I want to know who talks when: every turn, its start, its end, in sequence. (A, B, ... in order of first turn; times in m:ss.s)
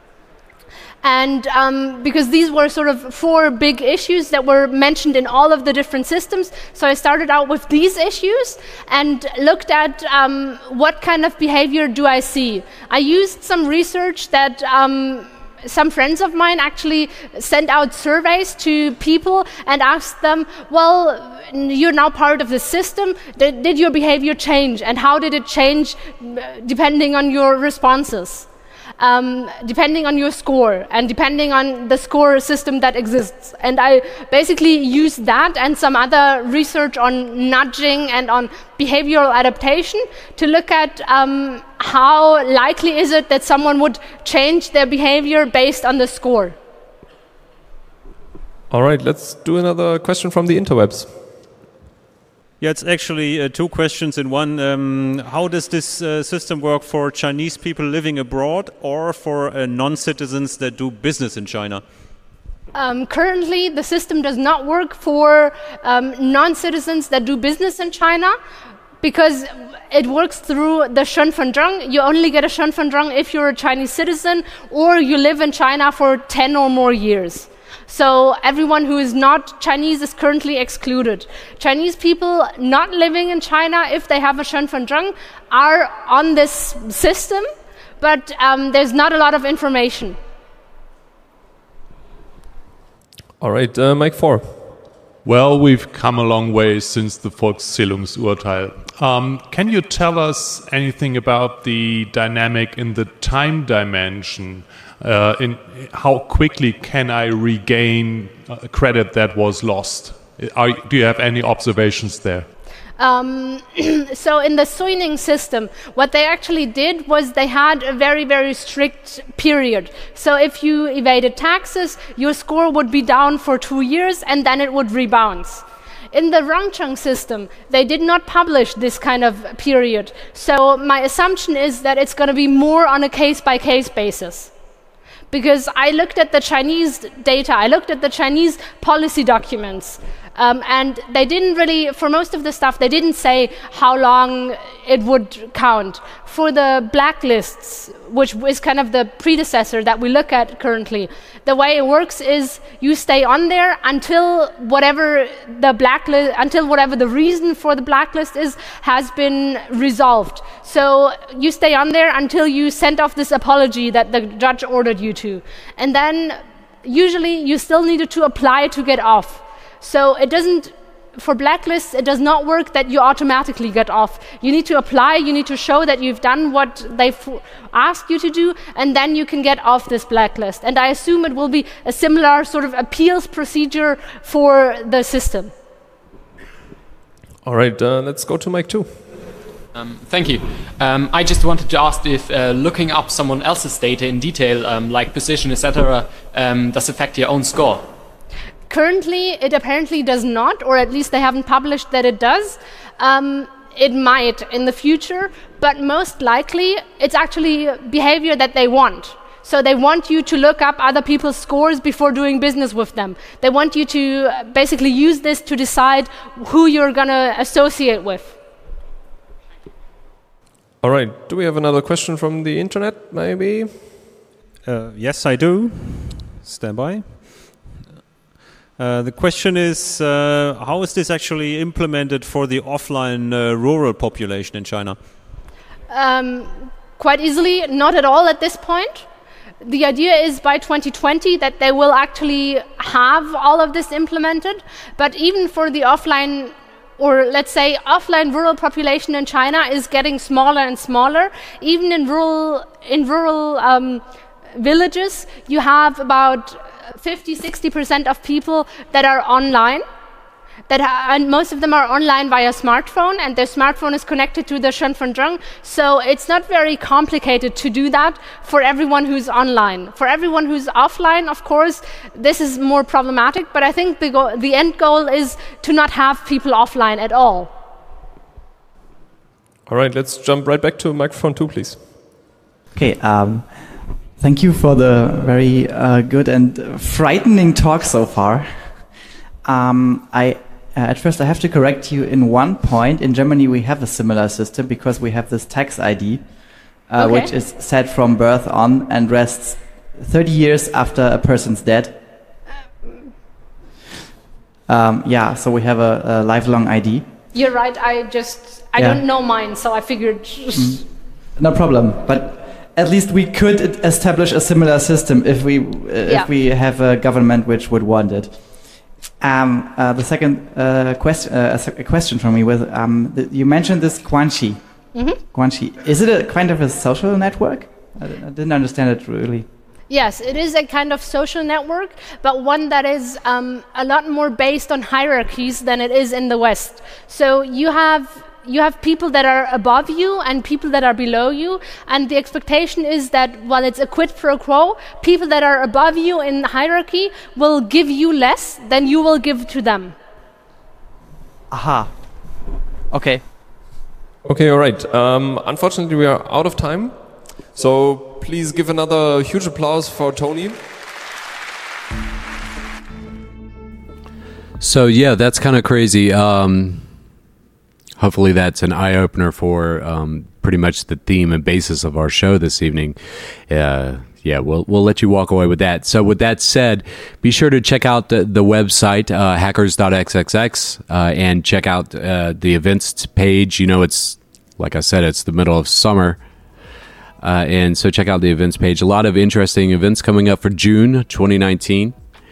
0:01.0-0:28.5 A
0:29.0-0:46.6 A
0:48.7-0:51.2 B
0:52.6-1:01.8 C
1:02.7-1:08.4 A
1:09.0-1:27.5 A
1:28.0-1:30.2 A
1:33.4-1:34.7 B
1:35.2-1:52.5 D
1:53.0-2:14.5 A
2:15.3-3:05.5 A
3:07.4-3:09.1 B
3:09.7-3:17.9 E
3:18.7-3:38.4 A
3:40.8-3:44.0 B
3:44.6-3:47.1 C
3:48.8-3:55.0 C
3:55.9-3:59.1 A
3:59.6-4:14.0 A
4:14.6-4:19.8 A
4:20.7-4:37.5 A
4:39.7-4:41.8 B
4:42.8-4:43.6 F
4:44.2-4:48.5 F
4:49.4-4:56.3 F
4:56.9-5:02.0 F
4:57.0-4:57.3 A
5:04.7-5:07.1 F
5:07.3-5:10.8 A
5:08.8-5:09.0 F
5:10.5-5:10.8 F
5:11.4-5:24.6 F
5:25.3-5:29.5 F
5:29.9-5:50.0 A
5:51.5-5:51.9 F
5:52.9-5:53.2 F
5:54.2-6:00.6 B
6:04.6-6:06.9 G
6:08.0-6:13.0 G
6:13.5-6:26.2 G
6:27.2-6:32.0 G